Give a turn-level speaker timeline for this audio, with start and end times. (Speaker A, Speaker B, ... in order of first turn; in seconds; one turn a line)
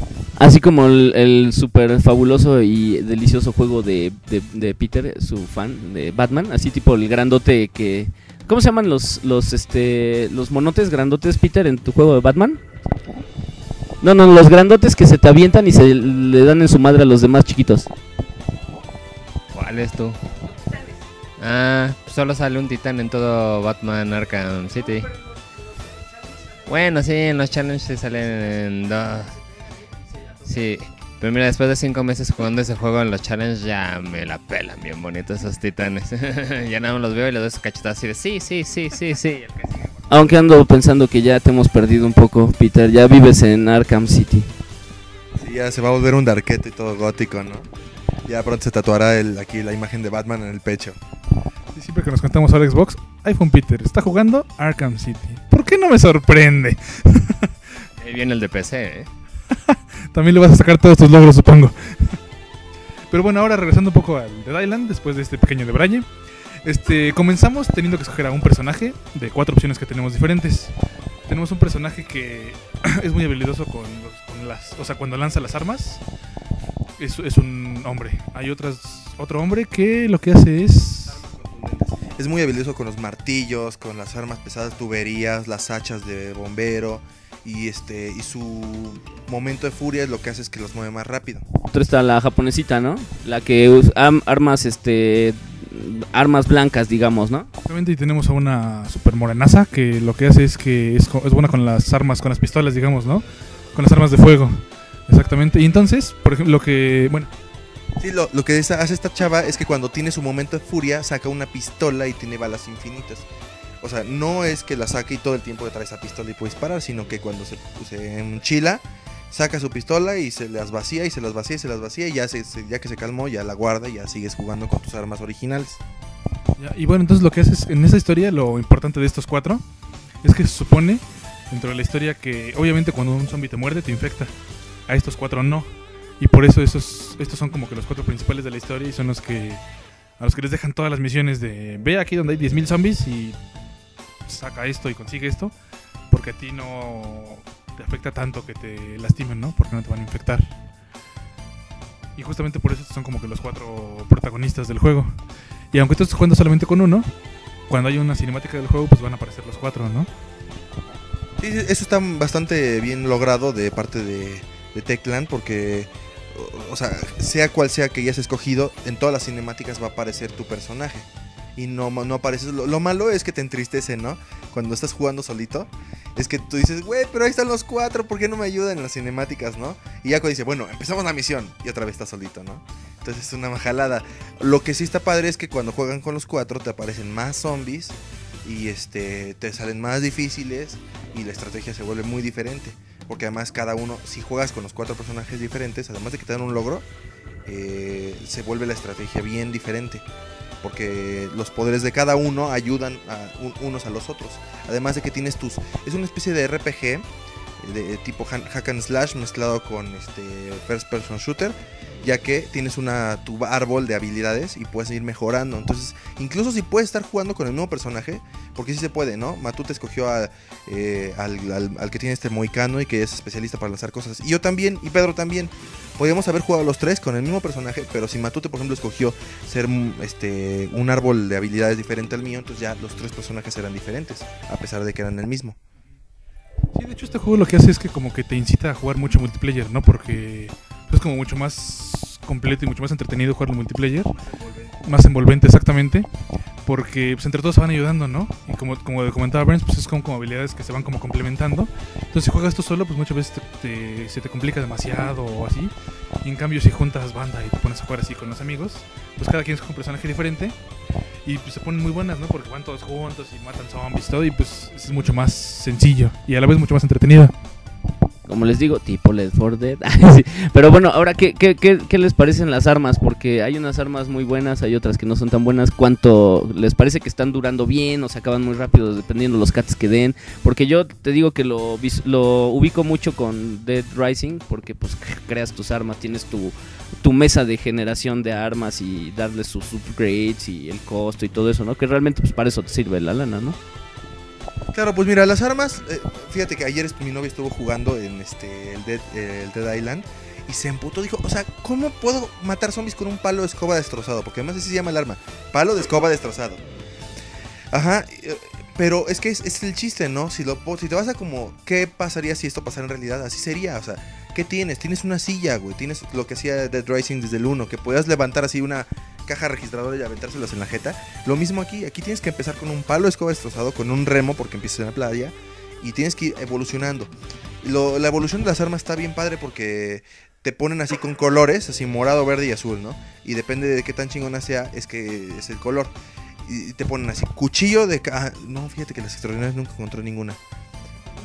Speaker A: 0.4-12.6
Speaker A: 14.0-17.9
Speaker B: 19.5-20.3
Speaker B: 21.4-25.2
Speaker B: 26.5-29.4
Speaker B: 30.4-39.9
Speaker A: 40.1-44.5
Speaker C: 45.4-47.7
Speaker C: 48.2-51.0
Speaker D: 51.7-57.5
Speaker B: 58.0-59.1
Speaker D: 59.7-62.2
Speaker D: 63.1-66.1
Speaker D: 66.6-70.7
Speaker D: 71.3-76.0
Speaker D: 77.0-81.2
Speaker C: 81.2-91.5
Speaker A: 91.7-97.5
Speaker D: 97.6-107.3
Speaker C: 108.0-113.3
Speaker C: 113.8-125.8
Speaker D: 126.6-129.6
Speaker D: 130.2-134.3
Speaker D: 134.9-139.6
Speaker D: 140.2-143.4
Speaker D: 144.3-145.5
Speaker D: 146.1-150.5
Speaker D: 152.2-155.2
Speaker D: 155.7-157.1
Speaker D: 157.7-160.1
Speaker C: 161.4-196.8
Speaker C: 197.4-200.0
Speaker C: 200.6-207.1
Speaker C: 207.6-235.6
Speaker D: 236.7-244.1
Speaker D: 244.8-246.1
Speaker D: 246.6-255.7
Speaker D: 256.2-260.6
Speaker D: 261.2-267.3
Speaker A: 268.2-293.6
Speaker C: 294.7-306.6
Speaker C: 307.7-335.9
Speaker C: 336.4-340.4